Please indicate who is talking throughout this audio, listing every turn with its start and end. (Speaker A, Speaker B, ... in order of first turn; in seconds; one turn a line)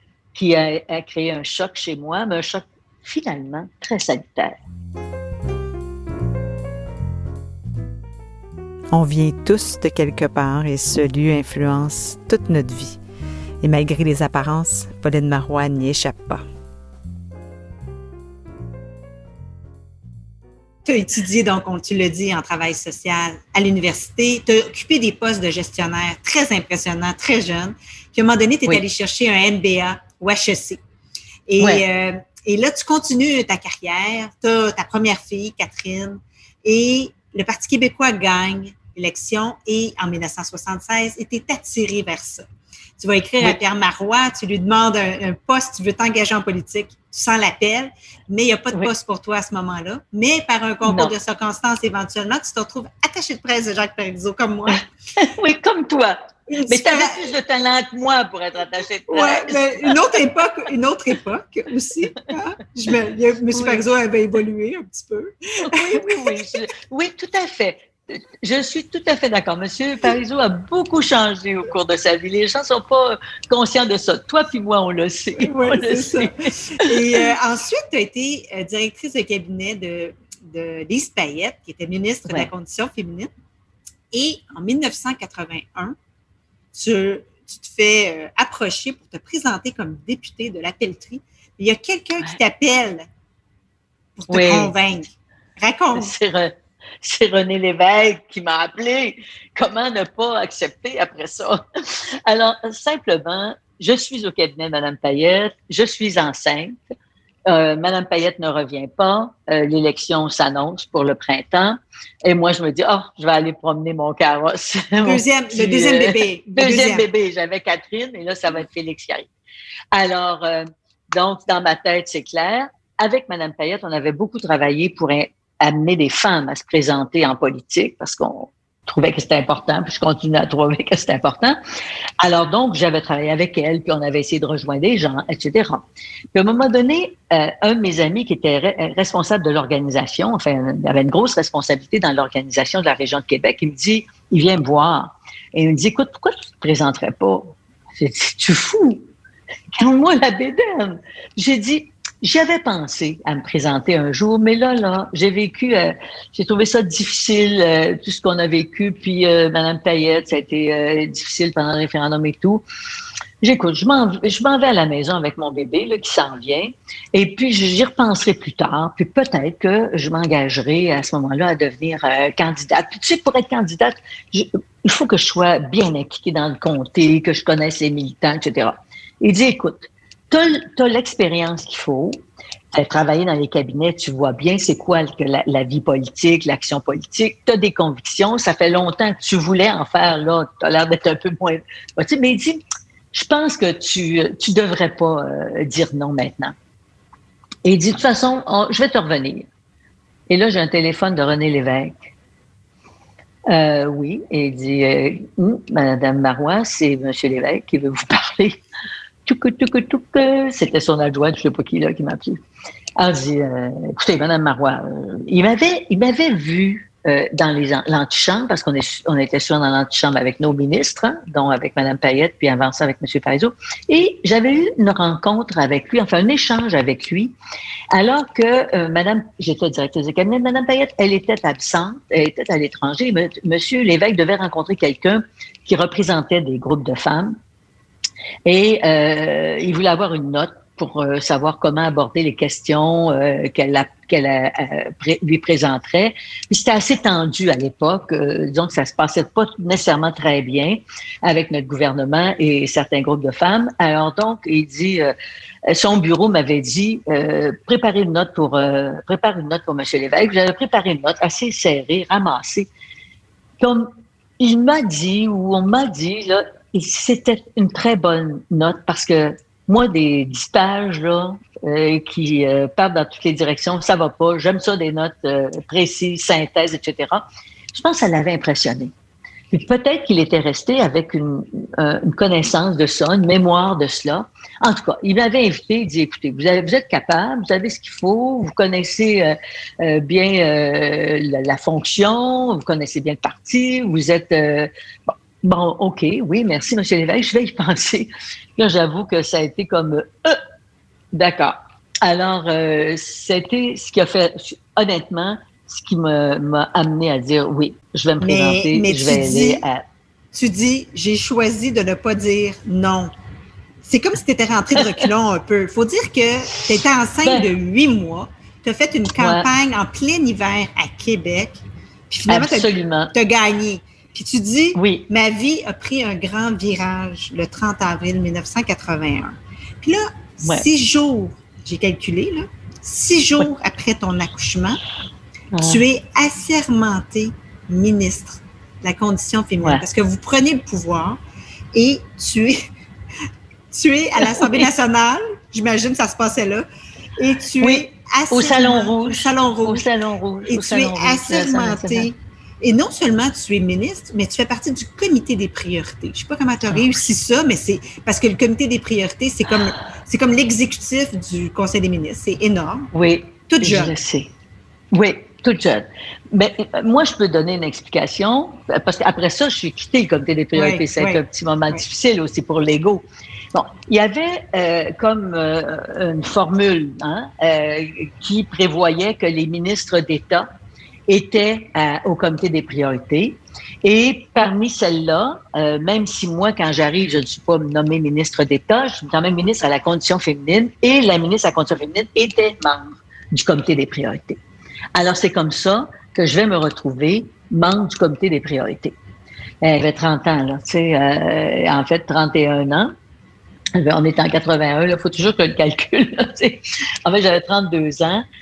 Speaker A: 0.3-4.6
Speaker B: 8.9-13.0
Speaker B: 13.6-16.4
Speaker C: 20.9-30.8
Speaker C: 31.5-42.5
Speaker C: 43.0-54.8
Speaker A: 50.9-51.1
Speaker A: 55.2-60.0
Speaker C: 56.5-57.2
Speaker C: 59.1-66.4
Speaker A: 63.5-63.8
Speaker A: 65.6-77.2
Speaker C: 75.4-83.3
Speaker C: 84.1-86.0
Speaker C: 86.7-93.1
Speaker C: 94.2-96.1
Speaker A: 94.3-94.7
Speaker A: 95.9-106.8
Speaker A: 107.5-119.3
Speaker C: 115.0-117.1
Speaker A: 119.9-131.6
Speaker A: 132.2-149.1
Speaker A: 149.8-162.6
Speaker A: 163.4-192.6
Speaker A: 193.1-196.6
Speaker A: 197.7-199.5
Speaker A: 200.3-202.1
Speaker A: 203.5-208.6
Speaker A: 209.3-212.4
Speaker A: 213.0-227.3
Speaker A: 227.9-237.4
Speaker A: 238.5-255.1
Speaker A: 255.7-262.7
Speaker A: 263.6-278.9
Speaker A: 279.5-300.4
Speaker A: 301.1-309.8
Speaker C: 308.2-309.6
Speaker C: 310.3-313.1
Speaker C: 313.8-334.8
Speaker A: 319.2-319.5
Speaker A: 322.3-323.1
Speaker A: 324.8-325.1
Speaker A: 335.5-335.8
Speaker C: 335.6-341.2
Speaker C: 341.7-342.6
Speaker C: 343.7-346.7
Speaker A: 344.2-344.7
Speaker C: 347.2-349.9
Speaker A: 347.6-352.1
Speaker C: 350.5-362.9
Speaker A: 362.9-364.3
Speaker C: 363.5-363.9
Speaker A: 364.9-380.5
Speaker C: 370.5-371.8
Speaker A: 381.1-394.4
Speaker A: 394.9-398.9
Speaker A: 399.6-402.9
Speaker A: 403.8-408.2